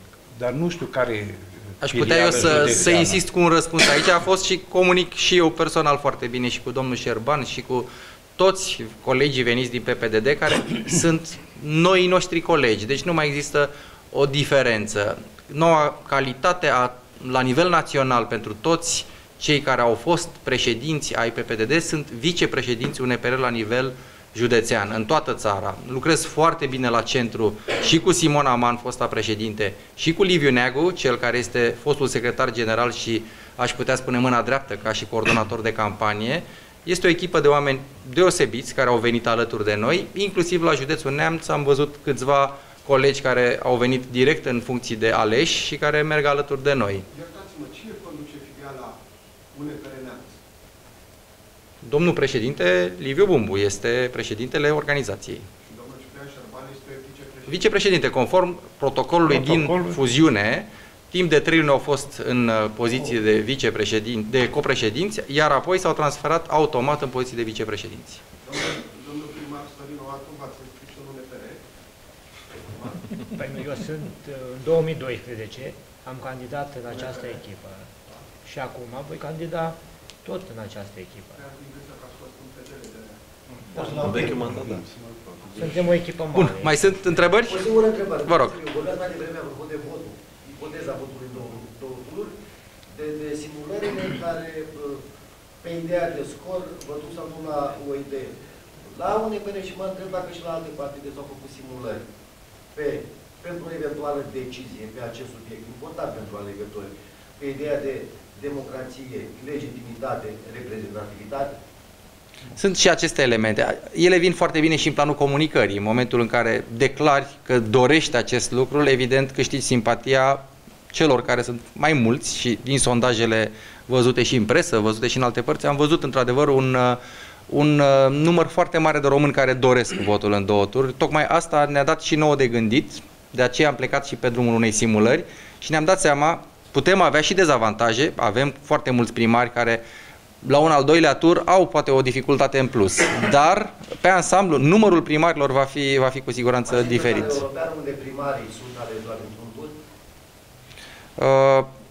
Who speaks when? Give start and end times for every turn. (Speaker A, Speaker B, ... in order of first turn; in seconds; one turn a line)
Speaker A: 0.3-3.2
Speaker B: 1.8-47.0
Speaker C: 47.1-49.0
Speaker C: 49.5-50.4
Speaker B: 51.8-55.5
Speaker C: 55.6-57.7
Speaker B: 57.5-68.2
Speaker A: 59.2-60.0
Speaker C: 68.4-71.6
Speaker C: 72.7-73.0
Speaker D: 73.3-77.9
Speaker C: 76.9-77.4
Speaker D: 78.4-81.4
Speaker C: 81.3-83.2
Speaker D: 83.7-84.6
Speaker E: 83.7-85.8
Speaker C: 83.8-84.1
Speaker D: 85.5-86.9
Speaker B: 86.3-87.7
Speaker F: 87.5-92.3
Speaker B: 88.2-88.6
Speaker F: 92.9-95.0
Speaker F: 95.6-98.3
Speaker F: 98.9-102.0
Speaker F: 102.7-111.5
Speaker B: 112.5-139.8
Speaker B: 140.4-147.4
Speaker F: 146.7-149.7
Speaker B: 151.2-151.7